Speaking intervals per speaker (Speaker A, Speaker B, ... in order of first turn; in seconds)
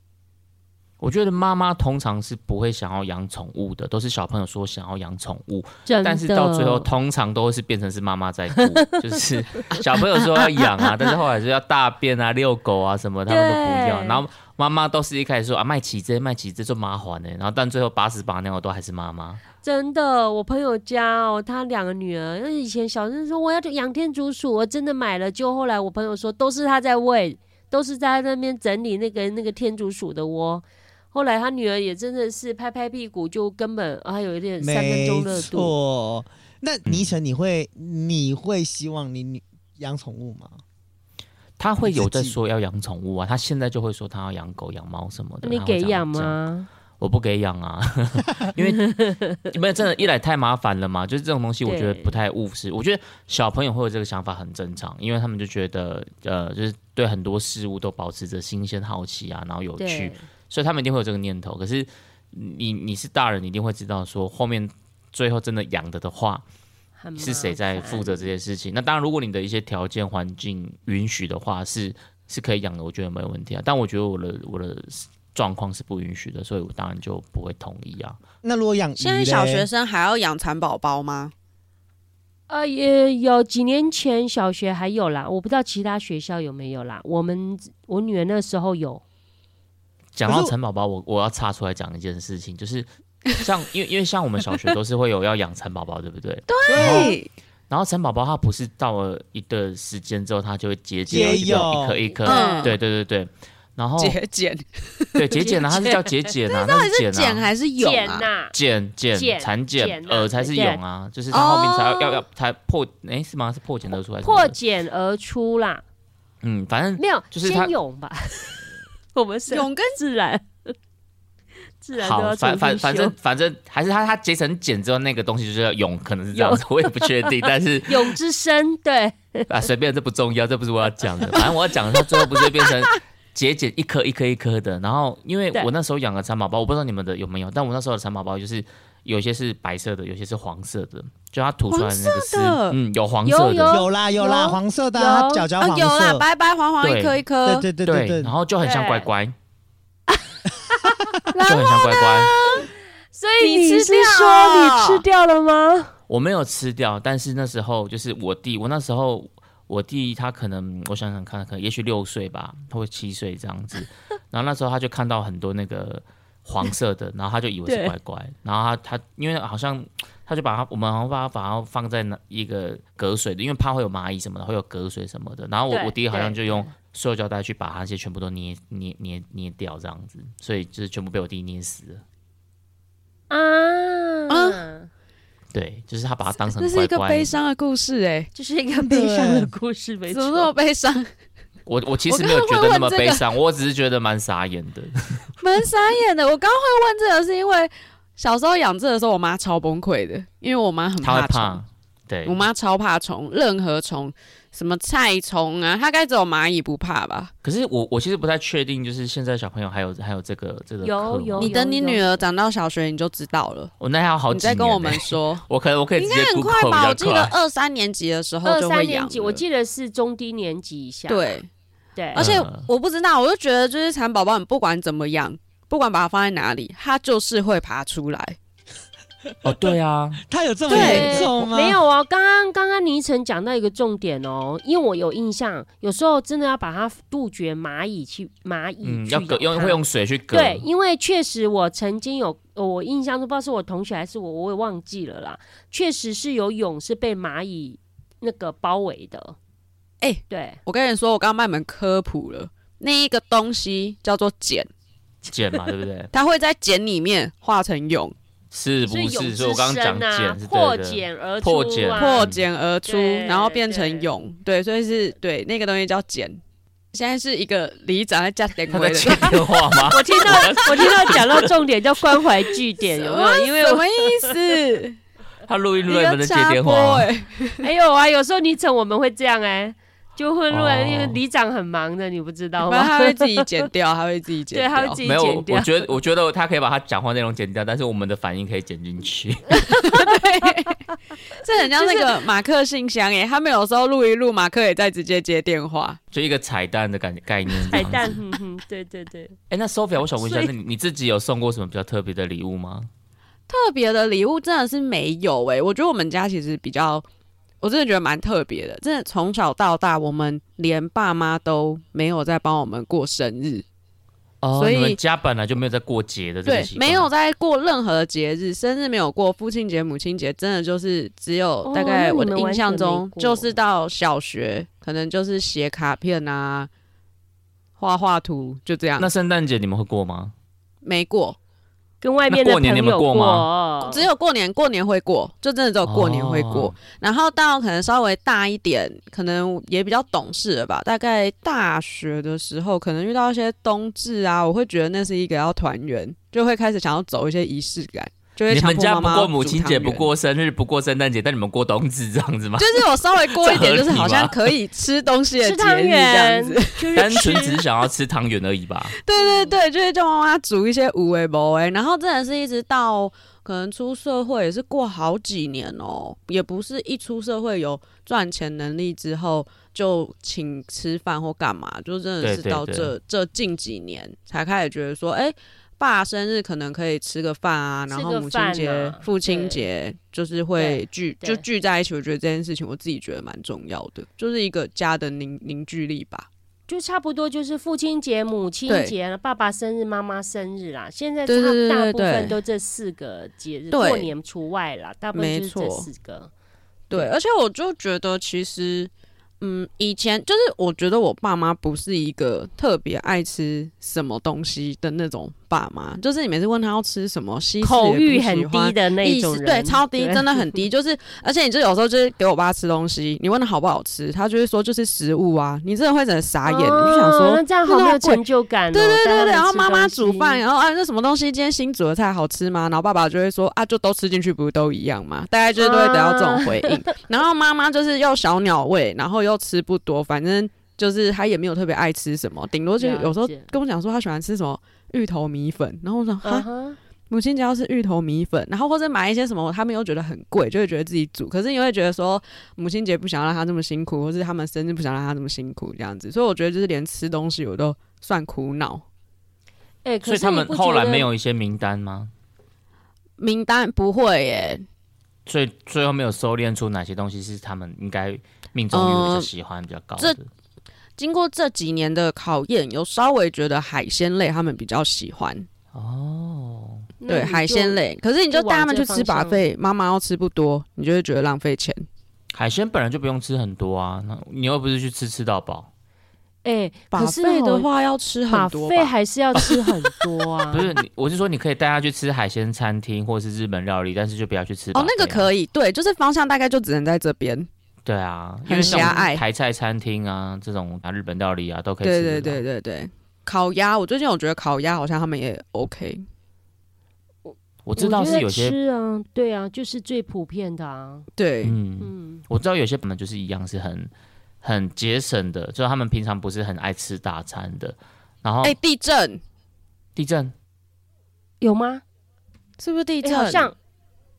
Speaker A: 1.0-19.4, 36.9-37.1, 41.6-46.4, 47.0-66.4, 67.2-78.2, 90.1-97.1, 97.7-104.2, 105.2-107.5, 108.5-114.5, 116.4-117.7, 122.0-128.1, 129.5-143.8, 146.8-147.2, 147.8-149.3, 151.4-152.3, 156.1-182.0, 185.5-187.4, 191.7-195.3, 201.0-202.5, 207.4-211.5, 213.8-217.3, 222.2-222.7, 229.4-230.2, 238.8-240.7, 255.2-256.1, 258.5-262.4, 268.7-271.5, 275.4-277.1, 280.5-281.2, 285.0-289.6, 296.1-298.2, 299.5-302.9, 314.4-317.1, 329.0-330.3, 332.3-333.5, 335.8-336.7, 348.5-354.5, 356.9-359.0, 372.2-372.9, 450.0-452.1, 455.2-460.3, 465.7-466.9, 472.3-475.7, 480.5-485.3, 487.9-492.4, 497.6-498.5, 501.4-503.9, 504.4-508.6, 509.9-510.3
Speaker B: 5.9-6.9, 13.3-14.2, 19.6-35.7, 45.4-46.7, 48.6-49.5, 51.6-52.1, 59.8-60.2, 67.0-68.3, 82.5-89.0, 102.1-102.8, 105.4-105.6, 107.8-108.5, 109.1-110.8, 114.2-115.8, 117.0-120.7, 121.8-123.2, 126.3-127.3, 127.8-129.5, 143.2-145.4, 148.6-149.1, 150.8-151.5, 153.1-155.9, 167.7-167.9, 175.7-176.7, 183.3-184.9, 188.3-190.5, 210.8-212.2, 218.4-221.4, 221.9-222.3, 230.7-239.8, 240.3-249.3, 250.3-250.6, 258.9-262.3, 262.9-264.1, 269.9-274.3, 277.6-283.6, 284.5-285.9, 289.8-290.1, 291.7-292.1, 297.6-299.3, 321.6-323.5, 332.0-334.1, 355.4-357.6, 359.2-359.6, 377.9-379.6, 380.6-381.4, 386.7-396.3, 407.6-410.6, 416.4-420.4, 425.6-426.8, 432.8-433.5, 436.2-436.8, 449.8-451.1, 467.0-467.8, 468.3-469.4, 476.4-477.7, 478.3-480.7, 488.5-489.0, 497.2-501.1, 501.8-502.2, 511.4-511.8, 513.0-513.5
Speaker C: 9.8-10.8, 79.0-81.3, 96.5-97.3, 102.2-102.8, 104.0-106.0, 106.5-108.3, 111.3-112.2, 119.5-120.0, 141.7-142.8, 145.6-147.7, 151.3-152.7, 153.4-155.0, 184.3-184.6, 186.4-188.3, 190.1-191.1, 192.1-193.2, 195.4-201.6, 202.2-207.3, 211.4-213.7, 214.3-215.4, 215.9-219.4, 221.1-221.5, 222.1-228.4, 230.7-231.3, 250.0-254.7, 256.1-258.1, 261.9-266.4, 266.9-269.5, 270.2-271.2, 272.8-275.0, 275.9-277.7, 282.6-285.0, 289.7-290.8, 291.3-296.0, 297.7-298.0, 300.2-300.5, 303.5-307.1, 307.6-313.6, 314.5-315.0, 316.4-326.7, 327.8-329.1, 330.8-331.4, 333.8-350.1, 352.6-357.1, 359.0-386.3, 388.7-388.9, 391.3-392.4, 393.7-394.1, 395.1-395.9, 396.9-418.2, 418.7-436.5, 437.1-448.8, 453.2-454.6, 458.7-459.3, 461.0-465.5, 467.1-471.9, 476.9-479.7, 484.7-487.5, 488.5-489.2, 491.8-496.0, 501.1-501.6, 508.4-509.2, 512.6-513.5
Speaker D: 34.6-40.6, 41.8-42.4, 78.4-79.7, 90.2-90.5, 96.7-97.2, 101.1-102.0, 143.7-146.2, 147.4-148.3, 188.8-189.5, 230.2-231.8